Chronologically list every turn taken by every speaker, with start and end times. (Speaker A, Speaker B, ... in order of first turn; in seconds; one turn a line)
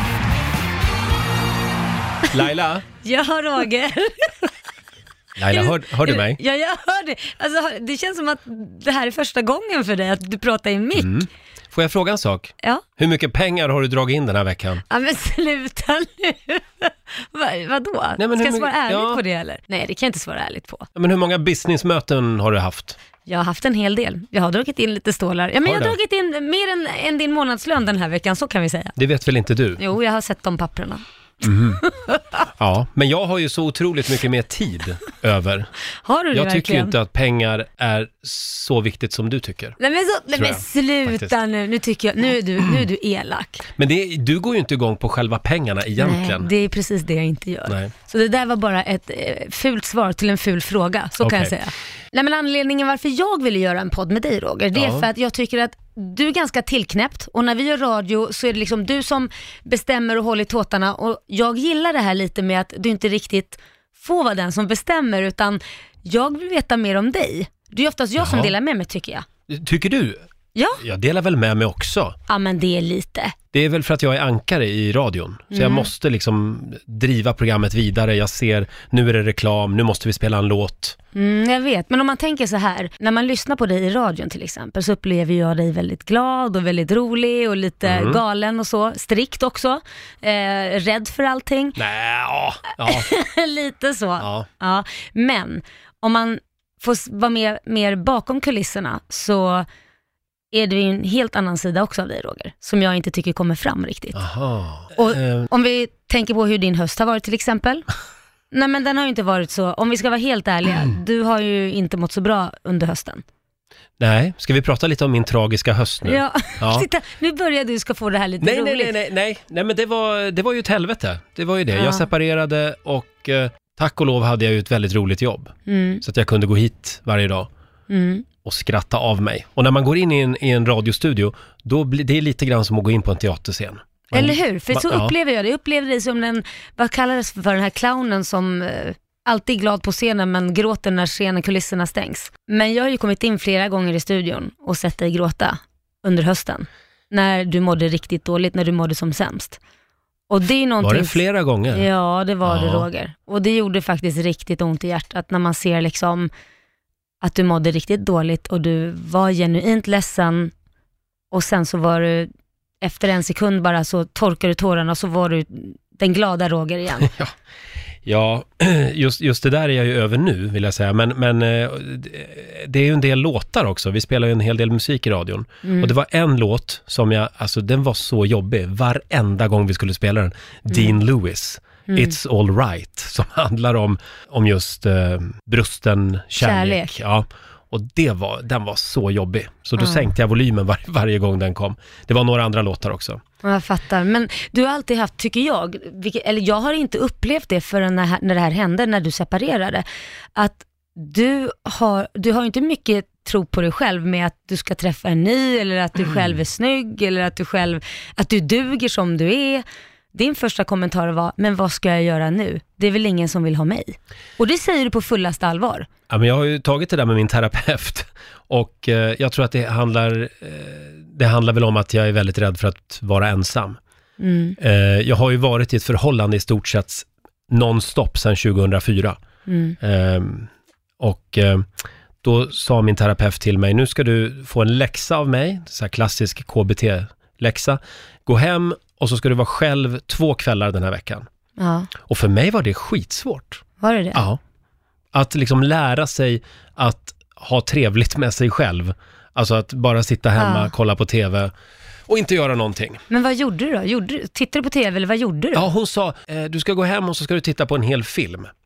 Speaker A: 2.3-2.9
Speaker B: 3.0-4.3
Speaker A: 5.4-6.4
Speaker B: 5.5-11.2
Speaker A: 10.9-14.8
Speaker B: 14.9-20.9
Speaker A: 18.2-19.2
Speaker A: 20.9-23.0
Speaker B: 23.2-28.9
Speaker A: 25.6-26.0
Speaker A: 28.9-29.8
Speaker B: 29.8-32.5
Speaker A: 31.4-31.8
Speaker A: 32.5-35.7
Speaker B: 36.0-36.9
Speaker A: 36.3-39.8
Speaker B: 39.8-43.6
Speaker A: 40.4-41.3
Speaker A: 43.8-46.5
Speaker B: 46.0-69.3
Speaker A: 47.7-47.9
Speaker A: 51.2-51.6
Speaker A: 54.7-55.1
Speaker A: 68.2-68.5
Speaker A: 69.5-70.2
Speaker B: 70.5-70.8
Speaker A: 70.8-72.2
Speaker B: 72.3-73.3
Speaker A: 73.5-81.0
Speaker B: 75.5-75.9
Speaker B: 81.1-91.8
Speaker A: 87.8-88.2
Speaker A: 91.8-93.1
Speaker B: 92.8-99.7
Speaker A: 94.2-94.5
Speaker B: 100.5-104.2
Speaker A: 104.1-105.5
Speaker B: 104.9-107.9
Speaker B: 108.5-113.2
Speaker A: 114.0-116.9
Speaker B: 116.0-118.9
Speaker A: 118.4-127.5
Speaker B: 121.7-122.1
Speaker B: 125.7-126.0
Speaker B: 127.9-128.2
Speaker A: 128.4-135.1
Speaker B: 134.1-149.6
Speaker B: 150.3-151.2
Speaker A: 150.8-151.9
Speaker B: 151.7-156.3
Speaker A: 152.4-152.9
Speaker B: 157.2-160.5
Speaker B: 161.3-162.3
Speaker B: 162.8-167.1
Speaker A: 167.0-167.3
Speaker A: 168.0-193.2
Speaker B: 175.6-175.9
Speaker B: 181.9-182.1
Speaker B: 186.4-187.0
Speaker B: 189.8-190.0
Speaker B: 193.4-199.8
Speaker B: 200.3-215.9
Speaker A: 216.1-223.8
Speaker B: 224.2-224.6
Speaker A: 224.6-229.2
Speaker B: 229.5-229.8
Speaker A: 229.8-230.5
Speaker A: 231.0-231.7
Speaker A: 232.2-241.3
Speaker B: 241.6-241.9
Speaker A: 242.0-244.4
Speaker B: 243.8-244.2
Speaker A: 245.1-251.5
Speaker B: 250.4-250.7
Speaker A: 252.1-253.0
Speaker B: 253.1-255.6
Speaker A: 255.5-258.5